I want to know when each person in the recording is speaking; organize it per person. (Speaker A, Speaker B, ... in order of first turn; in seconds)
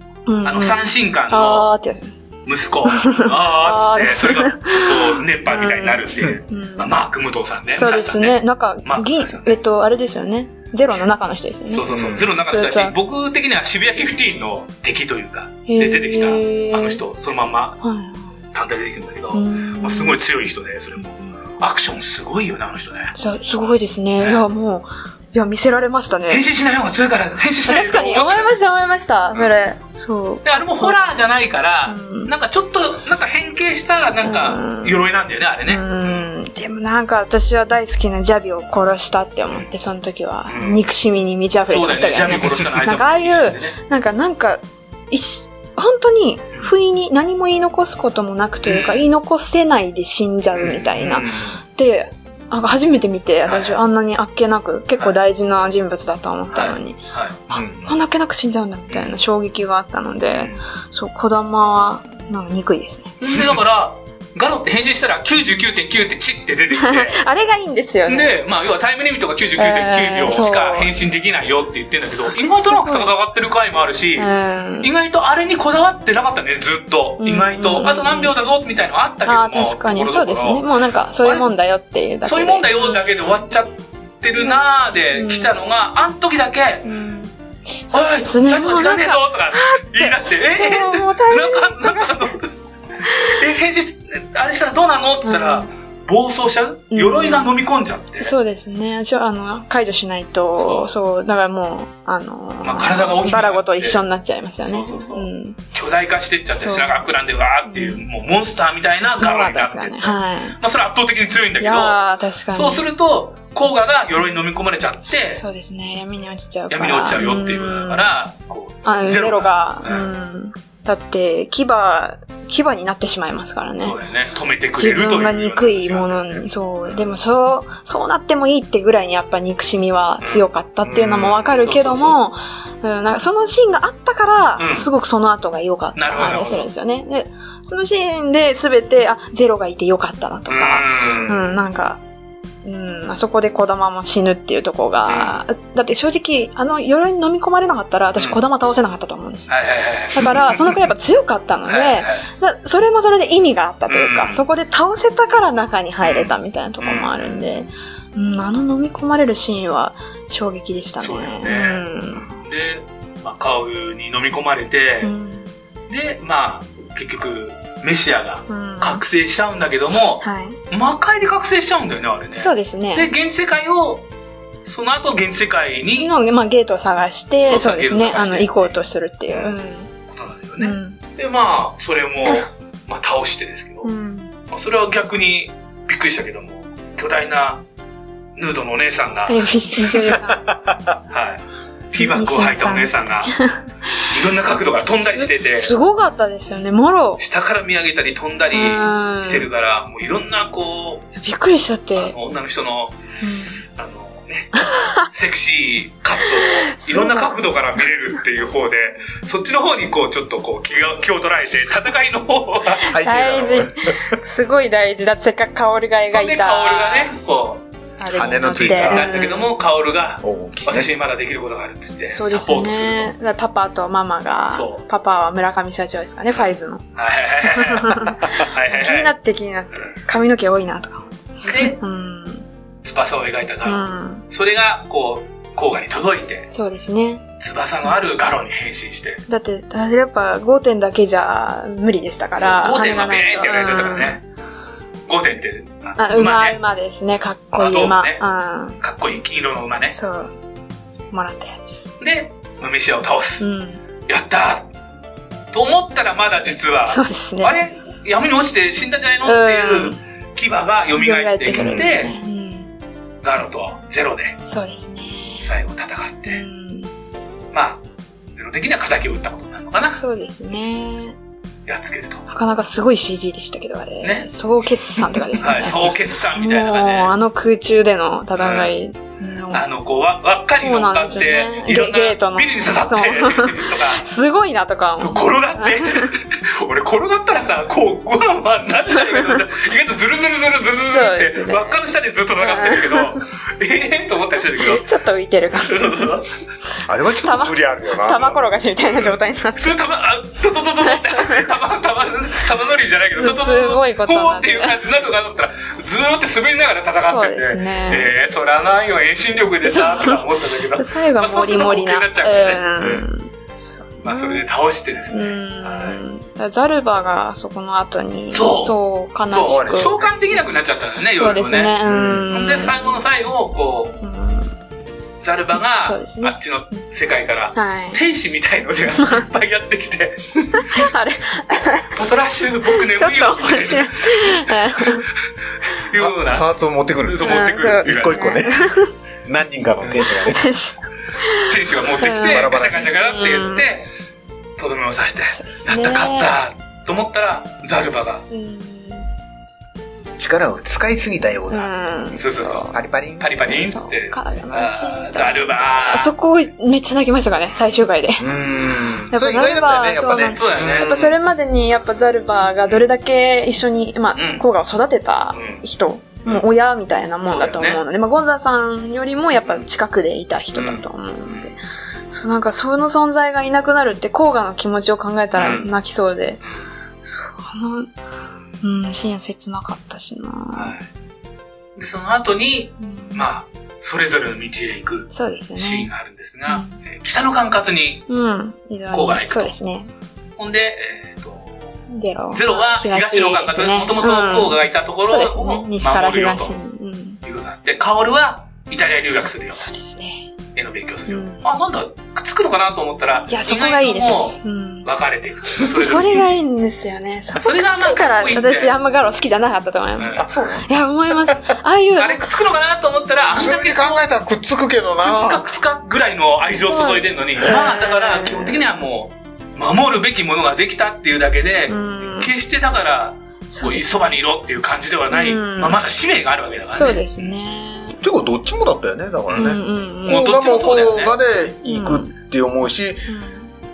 Speaker A: 0.3-2.1, 2.9-6.9, 7.7-12.9, 15.7-17.0, 17.8-18.3, 19.3-20.2, 23.1-26.4, 27.7-31.1, 31.9-32.3, 34.2-35.0, 35.7-63.1, 66.7-68.3, 69.6-70.9, 72.0-73.1, 74.2-74.9, 77.2-78.3, 79.2-83.2, 85.1-85.5, 86.8-87.3, 87.9-92.3, 93.0-93.3, 95.2-95.7, 96.9-97.5, 98.2-105.6, 106.5-107.1, 107.6-108.0, 109.0-110.6, 111.6-112.8, 115.3-118.1, 118.8-124.0, 124.8-142.0, 142.6-149.5, 150.1-162.4, 165.0-165.5, 168.5-169.0, 170.2-170.6, 172.3-173.1, 176.0-179.9, 180.6-181.0, 183.8-184.3, 189.3-190.4, 191.9-194.1, 195.0-197.2, 198.5-199.5, 201.2-202.1, 203.2-203.6, 204.5-205.1, 206.3-207.4, 213.0-217.1, 218.0-219.5, 222.1-226.8, 227.5-232.4, 233.6-234.2, 236.5-237.2, 239.3-244.2, 246.0-248.8, 249.9-250.3, 251.1-251.9, 253.4-253.8, 256.9-257.5, 259.2-260.0, 260.9-262.7, 264.4-265.4, 266.3-266.9, 269.9-271.1, 272.3-279.6, 280.6-286.1, 288.9-289.4, 290.9-291.8, 292.4-293.2, 294.6-296.1, 297.2-299.8, 300.8-301.5, 303.1-304.8, 307.0-308.1, 309.6-314.4, 315.1-320.0, 321.1-323.0, 324.0-324.5, 325.8-326.4, 327.5-328.0, 329.0-329.2, 330.5-331.9, 332.7-335.1, 337.2-338.9, 340.3-343.6, 345.3-346.3, 348.3-349.1, 351.5-352.7, 353.4-358.2, 359.1-376.4, 377.0-377.9, 378.6-380.7, 382.8-383.3, 385.1-385.9, 386.5-386.8, 388.1-389.9, 391.9-397.2, 399.5-400.3, 401.1-401.4, 403.3-404.9, 405.6-412.2, 416.4-418.6, 421.7-422.3, 423.5-424.1, 425.1-425.8, 426.7-428.0, 429.3-430.3, 431.6-432.1, 433.1-433.5
Speaker B: 0.4-1.7, 2.4-9.6, 11.7-17.8, 18.5-23.1, 24.2-24.4, 26.3-28.6, 30.4-36.3, 40.5-40.9, 41.7-43.8, 48.6-49.0, 50.5-51.6, 53.5-53.8, 56.5-57.4, 58.9-59.2, 60.3-60.6, 63.2-67.2, 68.1-74.3, 74.8-80.7, 81.2-81.5, 82.2-86.9, 87.9-92.5, 93.0-98.3, 100.6-100.9, 102.6-104.0, 104.6-112.0, 112.5-115.4, 116.7-120.1, 123.8-127.2, 130.2-130.5, 131.3-132.2, 134.6-134.9, 135.9-136.7, 140.5-141.4, 145.1-145.3, 149.5-150.8, 151.7-152.2, 153.9-154.4, 156.0-157.6, 161.0-165.1, 165.9-174.0, 174.6-176.1, 177.4-178.7, 180.1-183.9, 184.5-187.6, 188.3-189.4, 191.1-193.3, 194.1-195.7, 197.2-201.1, 201.9-203.0, 203.7-212.9, 216.1-217.6, 218.5-223.1, 224.5-224.8, 226.3-229.1, 231.4-231.8, 232.8-236.5, 237.4-239.2, 242.3-244.2, 245.1-246.6, 247.5-248.2, 248.8-249.9, 252.0-253.4, 254.1-254.7, 255.5-262.2, 263.2-264.4, 265.4-266.4, 267.5-267.8, 268.3-270.0, 271.6-272.2, 274.0-274.3, 275.0-277.1, 278.4-278.7, 279.5-284.0, 285.0-294.9, 295.6-296.3, 298.9-313.1, 314.0-316.0, 318.3-318.7, 319.3-324.0, 325.2-330.9, 331.9-335.0, 335.7-336.5, 337.0-338.4, 339.8-340.2, 341.4-343.9, 344.6-348.2, 352.1-356.1, 360.3-361.1, 364.1-364.4, 365.3-365.6, 367.2-367.8, 370.5-371.5, 375.4-375.7, 376.4-376.7, 380.5-380.9, 381.8-388.1, 388.9-389.5, 390.4-391.7, 392.3-396.6, 397.2-399.6, 400.5-406.3, 407.3-408.7, 410.0-410.2, 412.0-414.0, 415.0-427.3, 429.3-431.1
Speaker C: 11.8-12.3, 57.5-57.9, 130.9-131.3, 190.5-190.9, 212.8-214.1, 218.1-219.1, 220.2-220.9, 261.6-261.8, 296.9-298.4, 319.4-320.1, 321.9-322.2, 335.9-340.4, 342.2-342.9, 350.2-351.7, 352.7-353.3, 358.2-360.9, 410.1-411.3, 413.3-415.4, 428.0-433.1